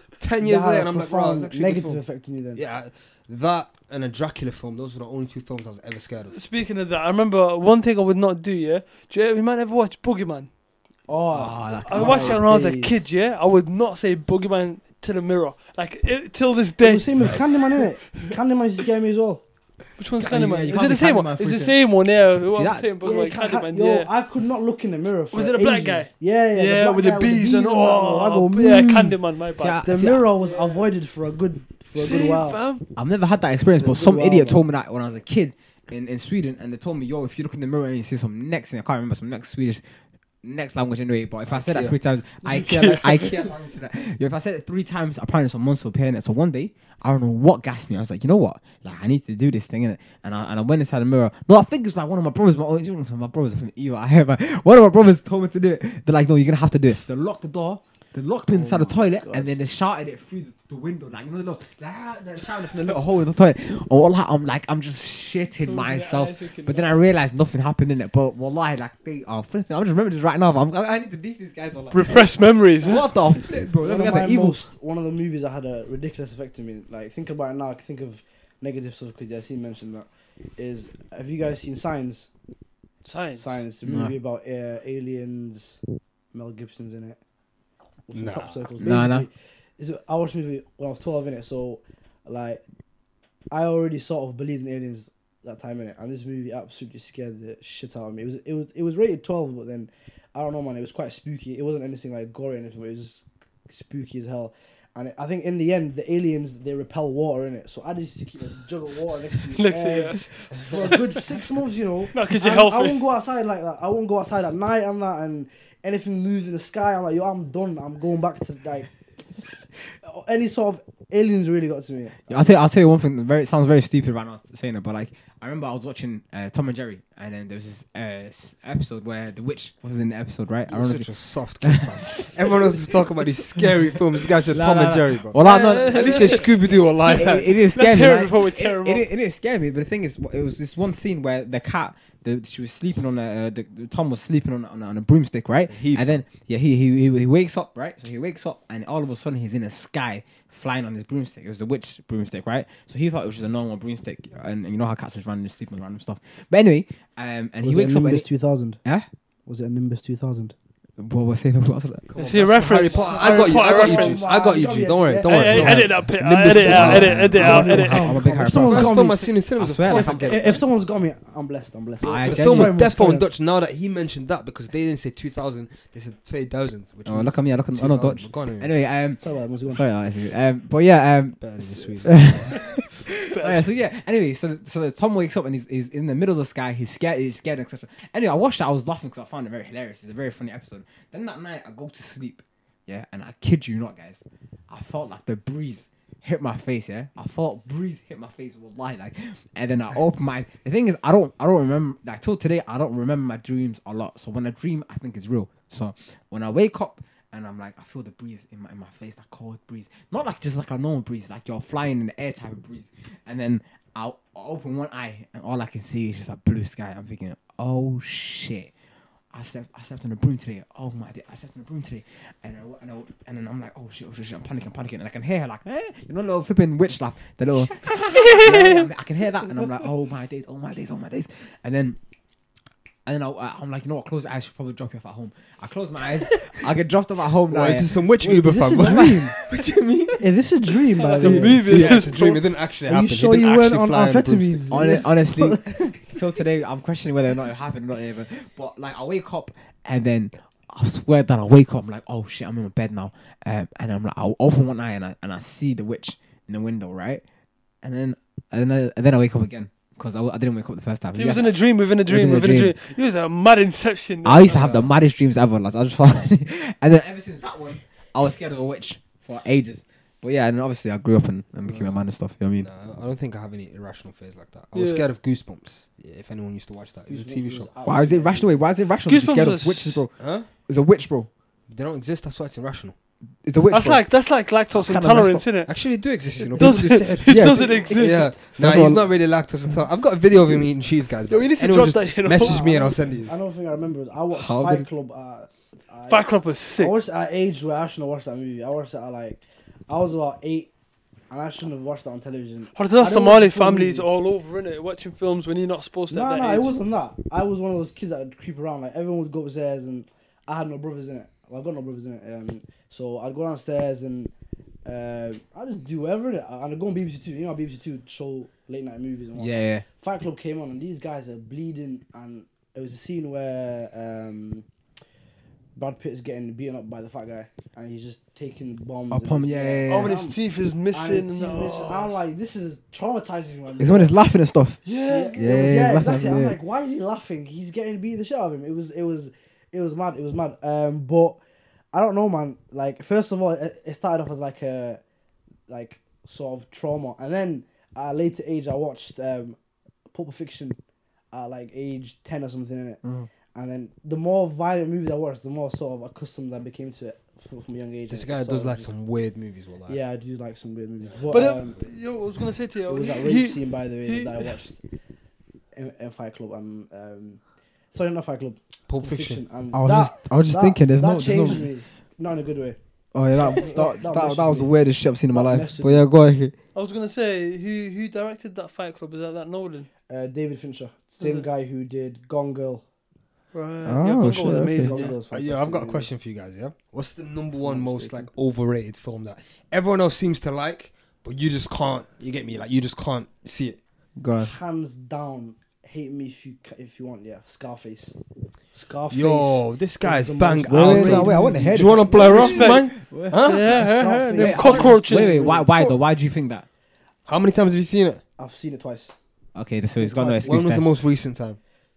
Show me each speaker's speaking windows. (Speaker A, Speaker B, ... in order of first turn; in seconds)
Speaker A: 0.2-2.0, 2.6-6.4, 41.5-42.0, 88.1-88.6, 130.7-137.5, 145.7-146.2, 162.1-167.3, 168.4-170.6, 172.1-178.7, 181.4-182.6, 237.5-240.2, 241.6-244.6, 264.5-264.9, 271.6-271.9, 272.6-277.7, 280.2-280.5, 281.7-282.9, 285.7-287.2, 287.9-293.4, 358.1-360.0, 368.9-369.4, 385.3-393.8, 399.1-403.8, 407.3-408.2, 410.4-411.6
Speaker B: 0.4-2.6, 11.1-13.0, 16.8-19.4, 23.0-29.2, 29.8-32.6, 33.8-34.6, 58.5-59.5, 73.8-82.3, 83.4-85.8, 86.3-87.2, 88.1-92.6, 93.5-118.9, 120.0-122.5, 157.6-158.8, 159.5-160.5, 162.8-165.8, 166.5-169.3, 169.8-173.3, 179.2-179.8, 238.2-239.3, 240.2-241.7, 242.9-246.0, 277.1-278.6, 286.5-288.3, 292.4-296.2, 296.8-300.7, 301.3-304.1, 306.1-314.3, 314.9-324.6, 325.8-330.4, 330.9-334.1, 335.0-341.4, 341.9-345.0, 345.7-349.6, 350.1-350.8, 351.3-353.0, 353.5-358.9, 359.9-361.8, 362.9-364.8, 365.7-367.4, 367.9-372.8, 373.3-374.8, 375.3-376.1, 380.1-382.8, 384.4-386.1, 387.6-388.3, 394.4-398.1, 398.7-405.9, 408.4-409.1, 410.0-410.7
Speaker C: 6.3-10.5, 11.9-18.3, 20.0-24.1, 25.3-29.9, 30.4-30.9, 32.0-32.9, 65.6-67.0, 71.9-73.1, 83.0-83.6, 109.5-111.2, 112.1-113.0, 135.4-139.1, 162.2-164.3, 165.2-168.2, 183.3-183.6, 228.3-228.9, 241.0-242.4, 261.1-264.6, 274.7-275.1, 279.0-280.0, 283.7-285.8, 286.4-288.4, 291.3-292.9, 296.1-296.9, 302.8-306.8, 329.9-332.2, 334.9-335.7, 361.3-364.5, 376.8-379.9, 381.2-381.4, 383.5-385.1, 402.1-405.5
Speaker D: 11.3-12.4, 20.2-21.8, 22.5-22.9, 29.6-30.3, 33.0-39.9, 40.4-74.6, 83.8-84.2, 88.8-89.3, 122.3-131.1, 131.6-133.6, 134.5-136.5, 137.0-158.3, 161.0-162.1, 165.6-165.9, 166.4-170.6, 172.0-172.8, 177.1-218.7, 219.3-232.0, 233.1-237.9, 238.8-239.2, 241.2-242.1, 244.7-257.2, 257.8-262.8, 264.2-272.7, 277.9-281.3, 283.4-284.1, 284.7-285.5, 287.3-287.9, 288.4-289.1, 294.3-294.9, 319.4-319.9, 329.1-330.2, 333.8-336.6, 353.0-353.3, 369.7-371.7, 373.1-376.5, 383.9-385.1, 394.2-394.5, 400.7-403.4, 404.4-406.6, 409.6-410.9